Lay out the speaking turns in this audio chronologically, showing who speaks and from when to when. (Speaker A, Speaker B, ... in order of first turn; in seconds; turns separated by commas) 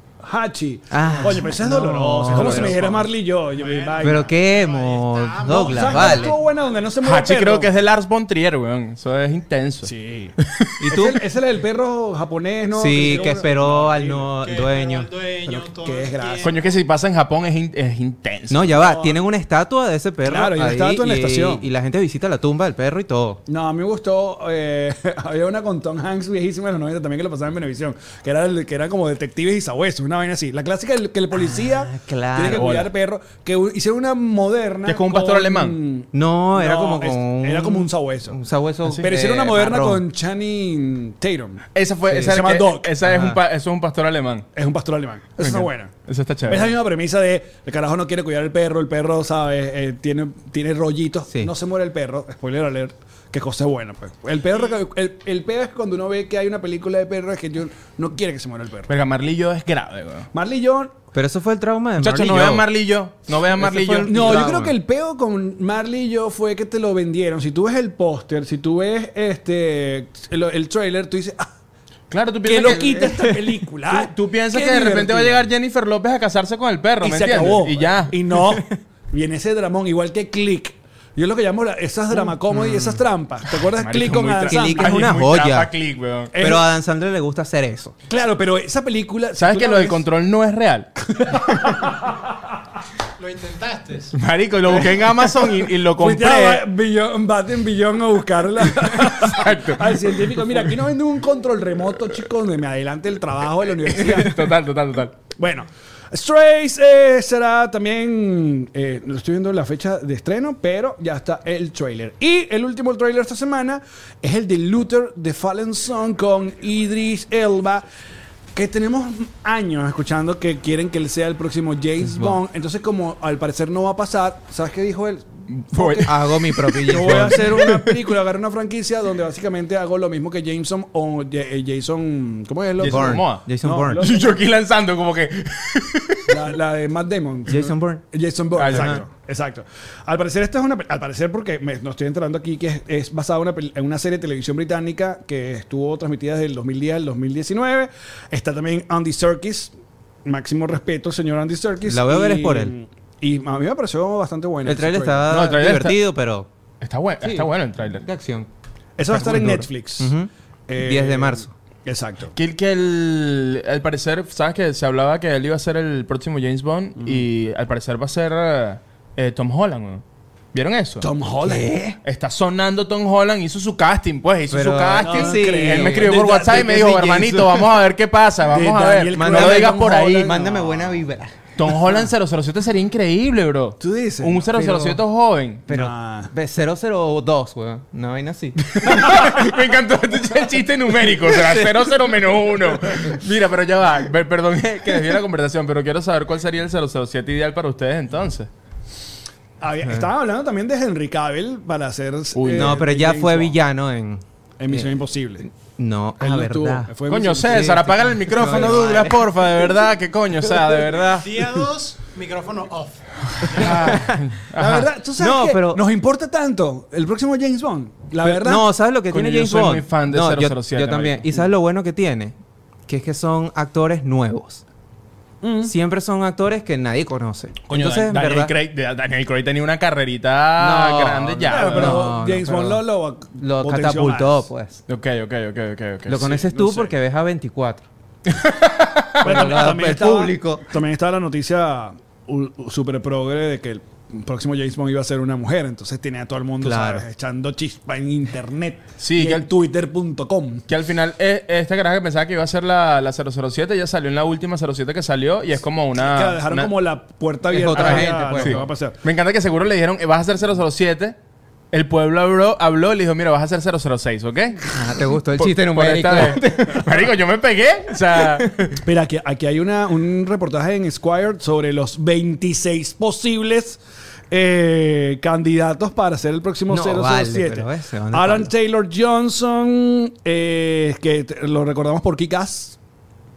Speaker A: 0.2-4.3, Speaker B: 0.9-3.0, Speaker C: 2.3-2.8, Speaker D: 3.5-6.5, Speaker B: 4.0-6.4, Speaker A: 5.5-7.7, Speaker C: 7.0-10.9, Speaker A: 9.8-10.3, Speaker B: 10.8-11.2, Speaker A: 10.9-14.3, Speaker B: 12.7-15.6, Speaker D: 13.1-13.4, Speaker D: 14.4-16.8, Speaker A: 15.5-16.6, Speaker C: 16.4-18.8, Speaker B: 18.5-23.4, Speaker A: 18.7-19.2, Speaker A: 20.2-21.6, Speaker A: 23.5-38.4, Speaker B: 31.3-32.8, Speaker C: 32.5-32.9, Speaker C: 34.9-35.8, Speaker B: 36.1-40.0, Speaker A: 38.9-43.0, Speaker C: 41.7-44.5, Speaker B: 43.0-43.4, Speaker A: 44.5-45.9, Speaker C: 45.4-46.7, Speaker A: 46.5-58.9, Speaker C: 58.9-60.3, Speaker A: 60.3-60.9, Speaker B: 61.1-62.7, Speaker C: 62.0-64.6, Speaker B: 63.5-64.7, Speaker A: 64.1-71.5, Speaker C: 72.1-73.3, Speaker A: 72.4-75.5, Speaker C: 73.9-78.6, Speaker A: 77.0-85.1, Speaker B: 82.5-83.0, Speaker C: 83.6-86.3, Speaker B: 84.5-85.7, Speaker A: 86.3-86.7, Speaker B: 86.4-87.9, Speaker A: 88.1-90.0, Speaker C: 89.4-91.4, Speaker A: 91.1-92.3, Speaker D: 93.2-94.1, Speaker C: 94.1-96.6, Speaker A: 94.7-104.5, Speaker C: 98.7-100.7, Speaker C: 103.8-105.2, Speaker A: 105.4-117.8, Speaker A: 118.5-126.1, Speaker B: 122.0-122.4, Speaker C: 125.5-127.9, Speaker B: 126.0-127.7, Speaker A: 126.7-134.3, Speaker C: 132.8-136.4, Speaker B: 132.8-134.1, Speaker A: 136.2-149.7, Speaker B: 137.5-138.0, Speaker C: 138.6-139.0, Speaker B: 138.7-139.0, Speaker A: 150.2-155.3, Speaker B: 151.9-152.7, Speaker B: 154.6-156.5, Speaker C: 155.3-156.0, Speaker C: 156.8-158.1, Speaker B: 157.2-158.5, Speaker A: 159.0-160.1, Speaker B: 159.1-161.5, Speaker A: 160.7-162.3, Speaker C: 162.3-170.0, Speaker C: 170.5-171.1, Speaker A: 171.0-171.9, Speaker B: 171.4-172.0, Speaker C: 172.0-180.4, Speaker B: 174.5-177.7, Speaker A: 175.0-176.9, Speaker A: 178.5-180.9, Speaker B: 179.1-181.4, Speaker C: 181.6-185.7, Speaker A: 183.8-184.6, Speaker B: 184.5-185.0, Speaker B: 185.7-189.4, Speaker A: 185.7-186.3, Speaker C: 188.7-198.5, Speaker B: 191.3-191.8, Speaker A: 199.6-203.6, Speaker C: 202.3-202.8, Speaker B: 202.5-204.9, Speaker A: 204.6-205.5, Speaker B: 205.6-206.9, Speaker A: 206.2-209.1, Speaker C: 207.1-211.3, Speaker B: 207.5-209.2, Speaker D: 211.2-214.1, Speaker C: 213.5-214.9, Speaker B: 213.7-214.2, Speaker A: 214.5-218.7, Speaker B: 215.2-215.8, Speaker B: 218.2-222.3, Speaker C: 219.1-221.3, Speaker B: 222.9-224.6, Speaker A: 225.4-225.7, Speaker B: 225.6-228.5, Speaker C: 227.7-232.1, Speaker B: 230.6-232.8, Speaker A: 231.5-234.4, Speaker B: 233.4-234.8, Speaker C: 234.9-236.4, Speaker B: 236.1-237.8, Speaker A: 236.2-236.9, Speaker C: 238.2-239.6, Speaker B: 239.2-240.6, Speaker A: 239.2-250.7, Speaker B: 246.6-247.0, Speaker C: 249.0-249.5, Speaker C: 250.7-256.7, Speaker A: 256.0-259.0, Speaker B: 257.5-258.6, Speaker C: 257.7-261.1, Speaker C: 261.7-264.7, Speaker B: 264.7-267.0, Speaker C: 265.4-268.8, Speaker A: 268.8-273.8, Speaker A: 274.3-282.8, Speaker B: 276.7-278.5